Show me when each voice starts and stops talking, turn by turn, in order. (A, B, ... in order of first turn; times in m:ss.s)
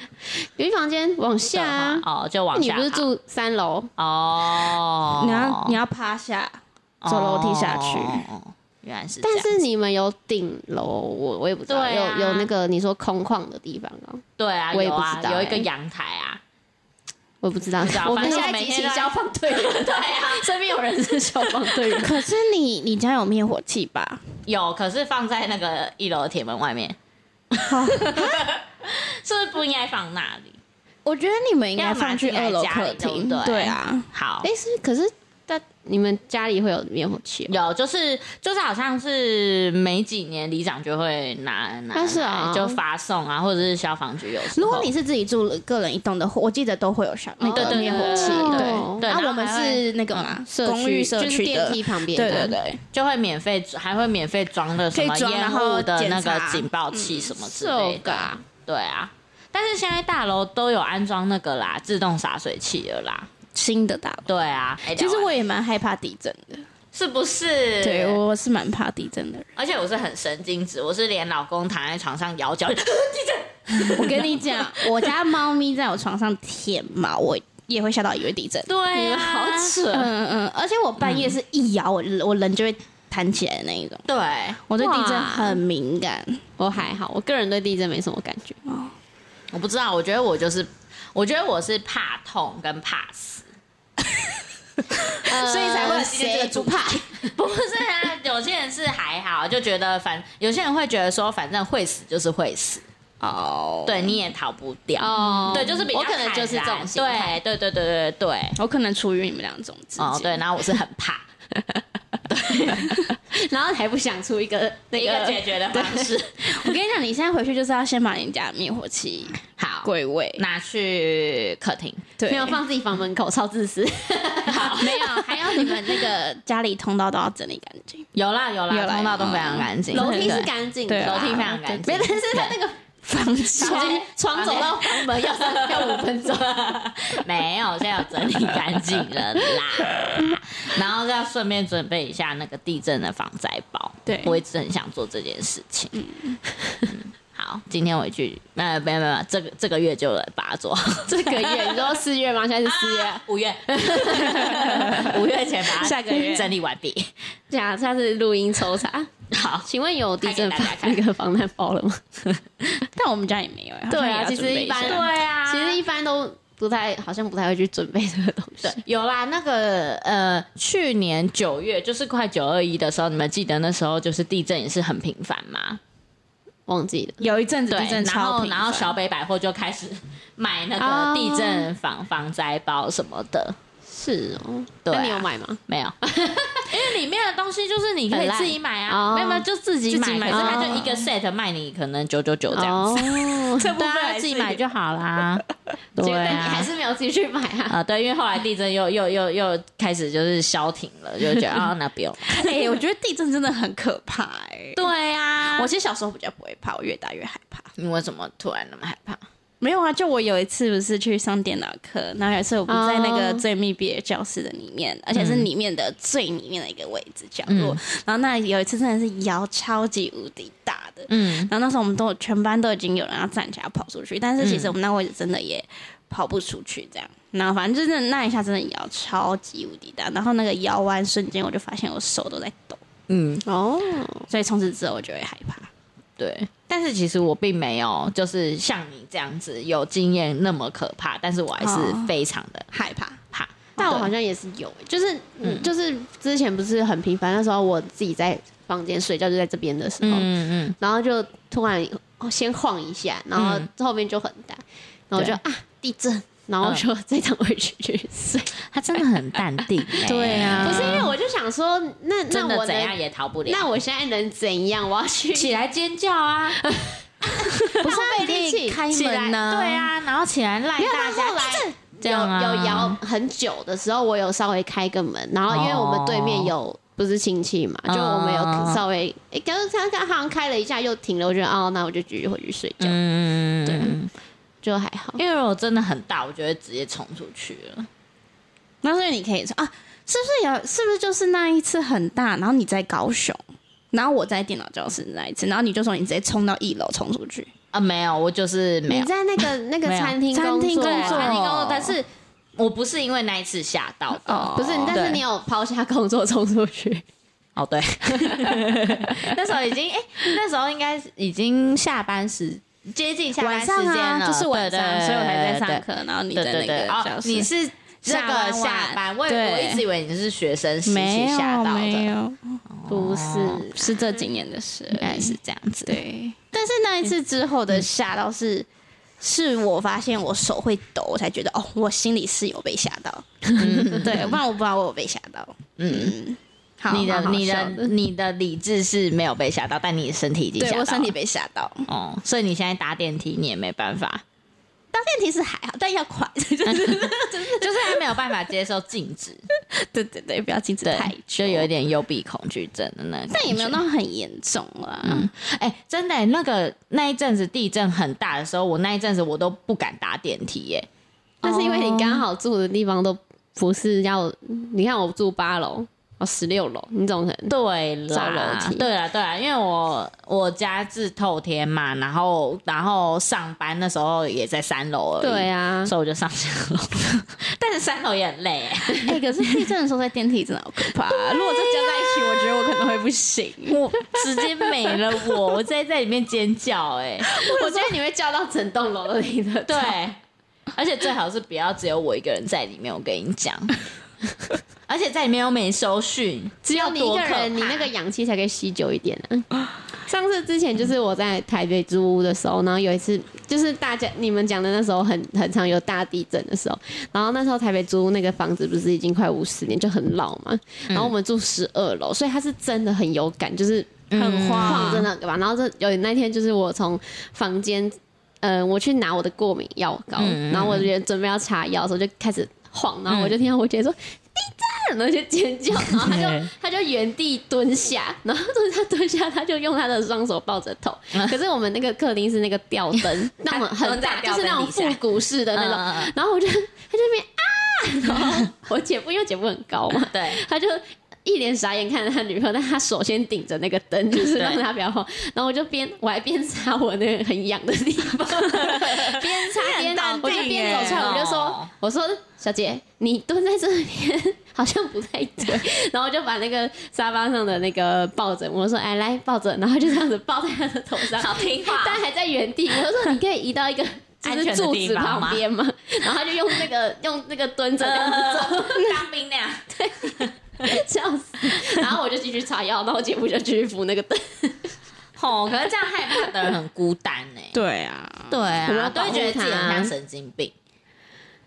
0:00.6-0:02.0 A
0:01.5-0:03.0 B
0:02.5-0:03.9 A
0:04.0-0:05.8 B
0:05.2-0:08.2 C
0:07.0-0:09.6 B
0:09.2-0:15.7 A
0:11.7-0:12.5 B
0:14.4-0:16.4 B
0:17.4-0:22.2 A
0:17.8-0:20.5 B
0:18.1-0:18.5 C
0:22.0-0:24.2 C
0:24.4-0:27.0 B
0:27.5-0:30.6 B
0:27.6-0:28.5 C
0:31.0-0:34.1 C
0:31.8-0:34.5 B
0:34.4-0:37.6 A
0:37.5-0:44.9 B
0:41.9-0:42.8 A
0:44.5-0:52.8 C
0:47.4-0:49.1 A
0:47.5-0:50.4 B
0:50.5-0:52.6 A
0:52.9-1:03.3 B
0:54.9-0:57.3 C
0:57.4-0:58.4 A
1:03.5-1:04.3 C
1:04.3-1:05.3 B
1:04.8-1:06.7 C
1:06.9-1:08.2 B
1:07.8-1:09.5 C
1:09.6-1:15.1 B
1:13.8-1:18.7 C
1:18.7-1:20.1 B
1:18.9-1:19.9 A
1:19.9-1:24.0 C
1:21.0-1:21.4 B
1:24.1-1:24.6 B
1:24.7-1:26.4 C
1:24.8-1:25.6 A
1:26.6-1:28.6 A
1:28.6-1:28.9 C
1:29.5-1:33.4 B
1:35.2-1:37.2 A
1:35.2-1:37.0 C
1:35.5-1:42.8 B
1:43.2-1:44.2 C
1:43.8-1:48.6 B
1:45.0-1:47.4 A
1:48.6-1:50.4 C
1:50.0-1:51.2 B
1:52.3-1:53.0 B
1:53.3-1:56.1 A
1:54.9-1:56.8 B
1:56.4-2:00.4 C
1:59.6-2:02.1 B
2:02.2-2:02.6 C
2:02.3-2:05.7 A
2:04.5-2:05.1 B
2:04.8-2:08.1 C
2:08.1-2:12.6 B
2:08.7-2:11.5 C
2:09.9-2:12.8 A
2:13.0-2:14.0 C
2:13.6-2:16.8 A
2:13.6-2:26.0 B
2:24.0-2:24.4 C
2:25.9-2:26.4 C
2:26.8-2:32.0 B
2:31.0-2:34.8 A
2:32.6-2:37.1 B
2:34.3-2:35.2 C
2:35.7-2:36.5 C
2:37.5-2:39.1 A
2:39.3-2:39.7 B
2:39.6-2:42.0 A
2:40.2-2:41.0 B
2:42.9-2:45.1 C
2:43.9-2:48.8 A
2:44.8-2:45.8 B
2:48.6-2:55.8 B
2:56.7-2:57.2 A
2:57.2-2:58.9 C
2:57.7-3:03.6 B
3:00.8-3:01.7 A
3:03.9-3:06.9 A
3:04.8-3:06.0 B
3:06.7-3:15.4 B
3:08.1-3:09.4 A
3:09.9-3:11.0 C
3:10.2-3:11.0 A
3:12.5-3:13.7 A
3:13.5-3:14.6 C
3:16.0-3:16.7 B
3:16.0-3:17.8 A
3:17.7-3:22.7 B
3:22.2-3:24.8 C
3:24.7-3:25.7 B
3:25.4-3:27.7 C
3:27.8-3:29.2 B
3:29.6-3:52.8 C
3:32.7-3:33.4 A
3:35.1-3:35.5 B
3:37.5-3:37.8 B
3:41.1-3:41.5 B
3:44.4-3:44.7 B
3:53.1-3:53.4 B
3:53.4-3:54.3 A
3:54.3-3:55.7 C
3:56.2-4:02.7 B
4:01.6-4:02.1 C
4:02.7-4:03.2 C
4:03.3-4:04.1 B
4:03.8-4:10.3 A
4:05.4-4:05.7 B
4:10.0-4:10.8 B
4:10.8-4:18.6 A
4:13.4-4:13.7 B
4:18.6-4:21.1 B
4:20.0-4:21.1 C
4:20.6-4:25.5 A
4:22.3-4:23.7 B
4:25.3-4:26.6 B
4:26.6-4:28.8 A
4:27.6-4:27.9 B
4:27.7-4:29.9 C
4:28.8-4:33.0 B
4:30.8-4:43.0 A
4:35.5-4:36.5 B
4:37.9-4:38.8 B
4:42.8-4:44.1 B
4:43.6-4:43.9 A
4:44.6-4:45.2 A
4:45.2-4:47.9 B
4:48.8-4:53.4 C
4:53.9-4:57.5 C
4:57.7-5:00.2 B
4:58.9-5:01.4 A
5:00.3-5:02.0 C
5:00.8-5:05.2 B
5:04.2-5:05.0 C
5:04.5-5:07.0 A
5:07.6-5:22.1 B
5:08.0-5:08.9 A
5:13.4-5:17.5 C
5:18.0-5:19.8 C
5:20.8-5:22.6 C
5:22.7-5:23.7 B
5:22.9-5:24.1 A
5:23.3-5:28.7 C
5:25.0-5:26.0 B
5:29.2-5:37.2 C
5:33.6-5:34.4 B
5:35.8-5:36.1 B
5:36.9-5:41.1 B
5:37.0-5:37.9 A
5:40.6-5:41.9 C
5:41.9-5:44.2 B
5:44.9-5:48.2 C
5:46.6-5:49.4 B
5:49.6-5:51.7 C
5:50.8-5:53.8 B
5:53.3-5:55.3 C
5:55.0-6:00.9 B
6:01.4-6:07.5 A
6:01.4-6:02.2 B
6:07.5-6:19.2 B
6:08.1-6:08.8 A
6:15.2-6:15.9 A
6:19.0-6:23.8 C
6:23.7-6:27.4 B
6:24.9-6:25.4 C
6:27.3-6:30.0 A
6:27.4-6:27.9 C
6:29.6-6:30.2 B
6:30.7-6:33.8 B
6:34.9-6:37.9 B
6:36.6-6:39.5 A
6:40.0-6:54.0 A
6:54.1-6:55.1 B
6:54.1-6:55.1 C
6:54.6-7:49.0 A
7:00.2-7:00.9 B
7:03.1-7:03.3 B
7:06.0-7:06.5 B
7:13.4-7:15.0 B
7:15.5-7:16.1 B
7:20.1-7:20.4 B
7:24.1-7:24.6 B
7:28.7-7:29.0 B
7:29.2-7:31.2 C
7:30.2-7:31.7 B
7:41.1-7:42.0 B
7:44.2-7:45.4 B
7:47.8-7:50.8 B
7:49.7-7:54.7 A
7:55.2-7:57.6 B
7:57.5-7:58.4 C
7:58.3-8:00.5 B
7:58.6-7:59.9 A